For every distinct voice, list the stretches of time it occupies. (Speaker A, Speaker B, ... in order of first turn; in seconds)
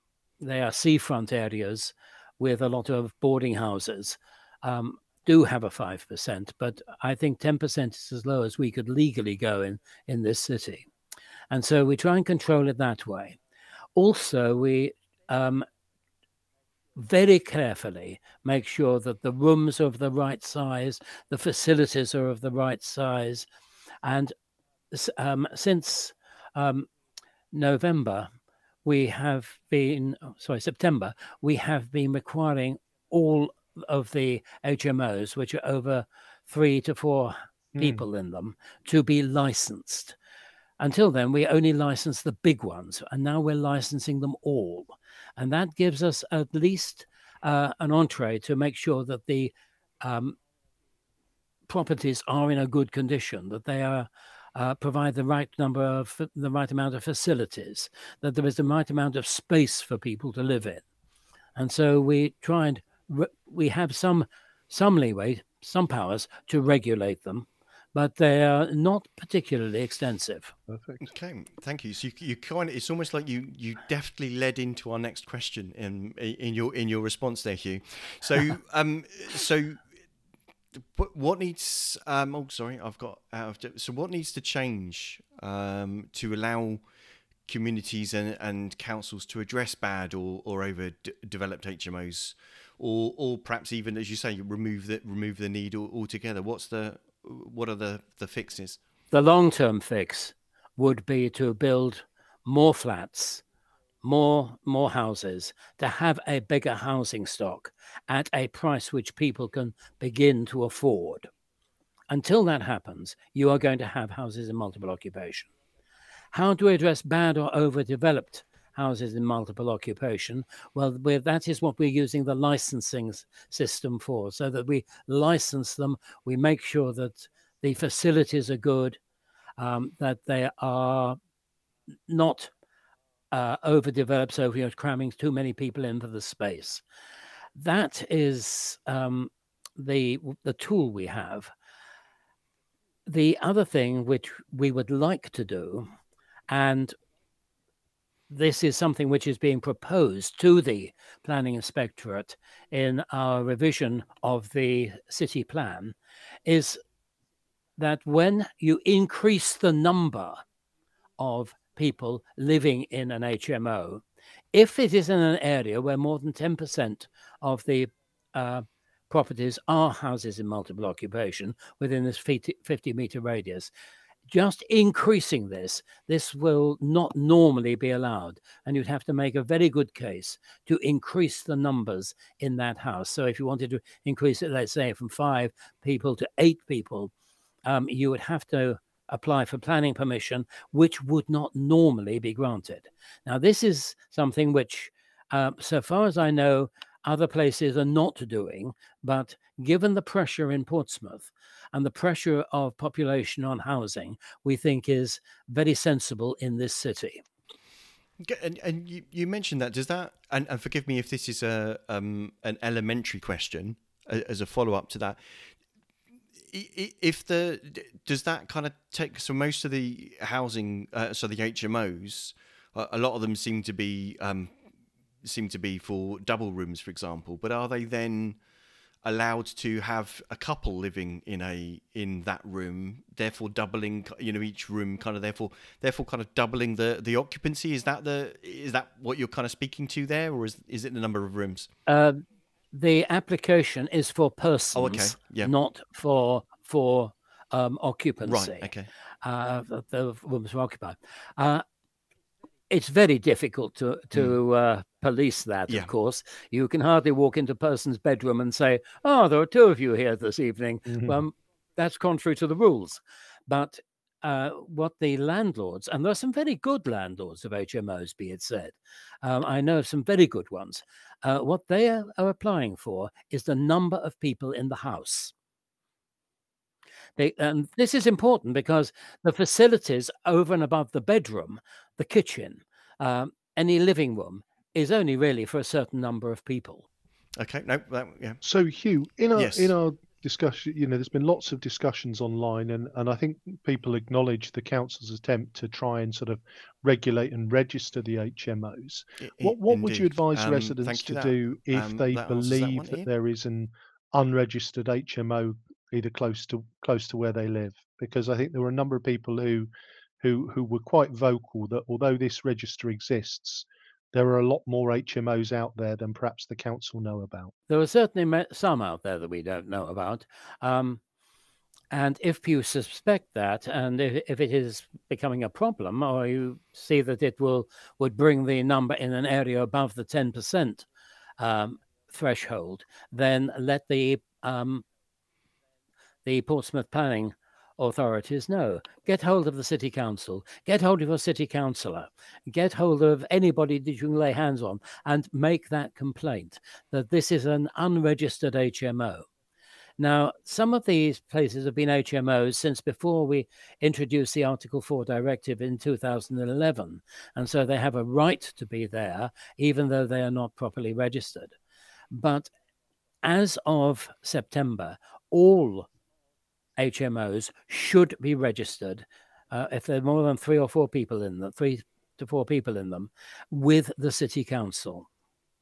Speaker A: 0.4-10.9, 11.5-13.4, 13.9-15.7, 16.9-23.4, 24.0-24.3, 24.9-26.9, 27.5-28.3, 28.8-40.1, 40.8-50.4, 51.7-60.8, 61.5-70.5, 99.1-103.4, 104.0-111.3, 112.1-115.5, 116.3-129.0, 129.6-131.2, 132.1-132.5, 133.3-136.8, 137.6-141.5, 143.1-145.9, 146.5-146.9, 148.3-156.8, 157.8-160.4, 161.2-173.7, 174.3-187.1, 187.6-207.2, 241.9-242.2, 242.7-248.7, 249.2-251.6, 252.7-275.3, 277.2-286.8, 317.7-321.0, 321.9-330.9, 331.4-334.8, 336.2-349.3, 350.0-361.5, 362.1-362.5, 363.2-365.9, 366.8-375.1
Speaker B: 37.7-38.0, 70.7-71.0, 260.9-261.2, 288.4-309.7, 310.2-317.5
Speaker C: 71.0-79.8, 80.8-86.8, 87.5-98.8, 208.2-215.3, 216.5-224.5, 225.2-228.4, 229.0-241.7, 244.7-245.5, 248.2-248.9, 287.4-288.4, 289.3-289.7, 299.2-303.1